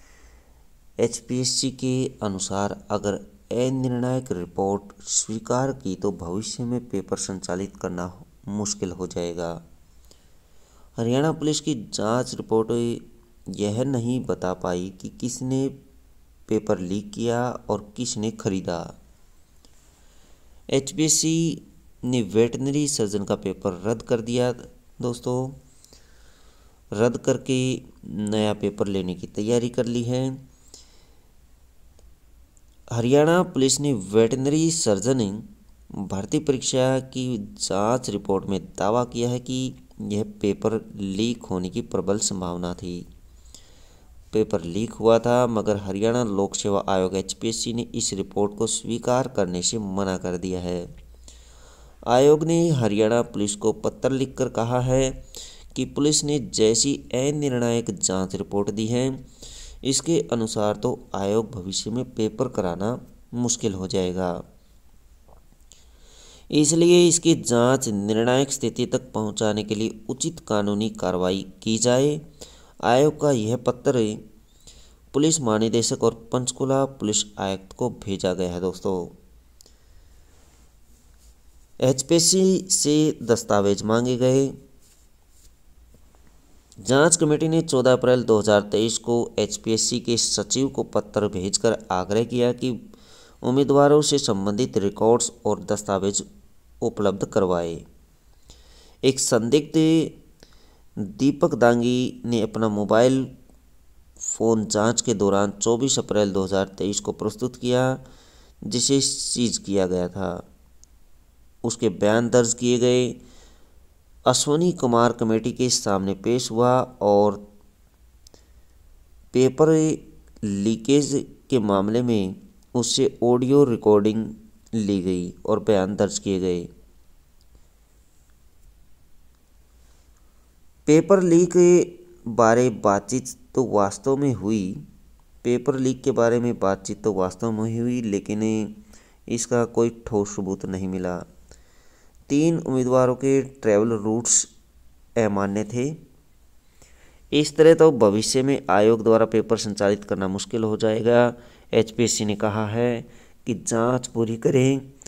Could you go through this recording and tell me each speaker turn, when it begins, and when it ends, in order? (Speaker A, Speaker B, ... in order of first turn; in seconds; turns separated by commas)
Speaker A: 1.0-9.6, Speaker A: 11.0-15.8, Speaker A: 16.5-18.9, Speaker A: 20.7-25.6, Speaker A: 26.9-30.4, Speaker A: 32.9-43.1, Speaker A: 44.3-50.9, Speaker A: 52.1-59.3, Speaker A: 59.8-64.4, Speaker A: 66.5-72.2, Speaker A: 72.8-74.2, Speaker A: 75.1-79.2, Speaker A: 81.8-84.5, Speaker A: 86.8-92.8, Speaker A: 93.4-96.2, Speaker A: 96.8-97.8, Speaker A: 99.0-100.2, Speaker A: 101.0-103.3, Speaker A: 104.2-108.0, Speaker A: 108.7-110.4, Speaker A: 111.6-113.2, Speaker A: 114.3-117.4, Speaker A: 119.3-126.7, Speaker A: 130.9-134.8, Speaker A: 135.4-141.3, Speaker A: 142.3-144.5, Speaker A: 145.2-146.0, Speaker A: 147.3-154.9